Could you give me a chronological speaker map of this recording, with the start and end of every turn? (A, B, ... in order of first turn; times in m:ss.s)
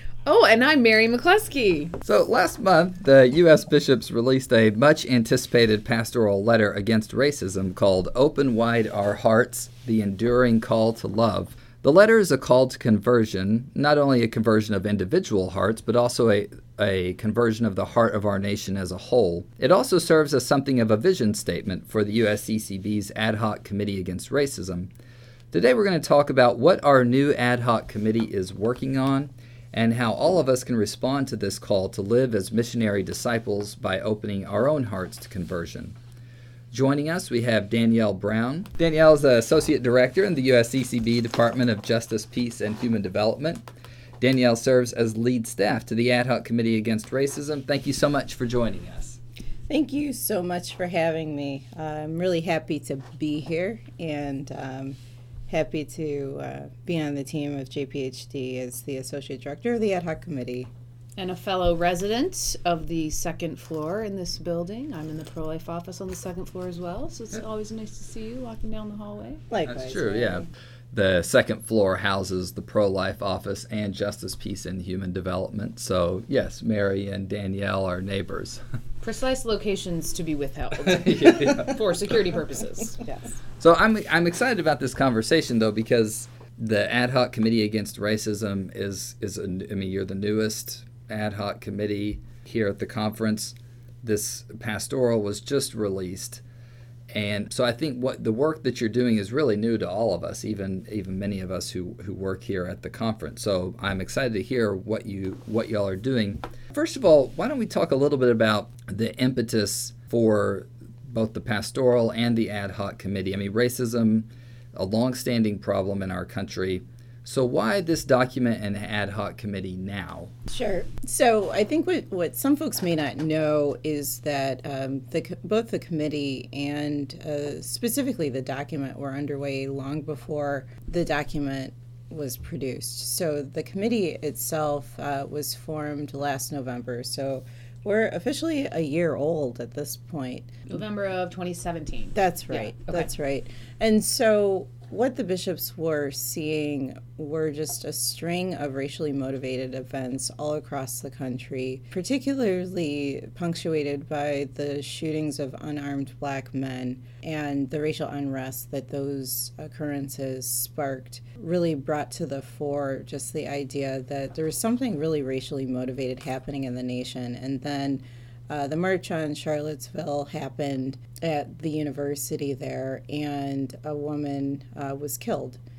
0:00.3-0:02.0 A
0:02.0-0:24.9 B
0:25.5-0:36.0 B
0:36.7-0:43.6 B
0:44.2-0:49.2 B
0:49.7-0:55.0 C
0:55.5-1:00.7 C
1:01.2-1:09.4 A
1:09.5-1:10.5 C
1:09.6-1:18.6 B
1:19.0-1:23.0 A
1:20.8-1:22.2 B
1:23.0-1:23.3 C
1:23.6-1:36.4 B
1:37.1-2:00.3 B
2:00.5-2:20.7 C
2:20.7-2:23.1 A
2:22.2-2:55.6 C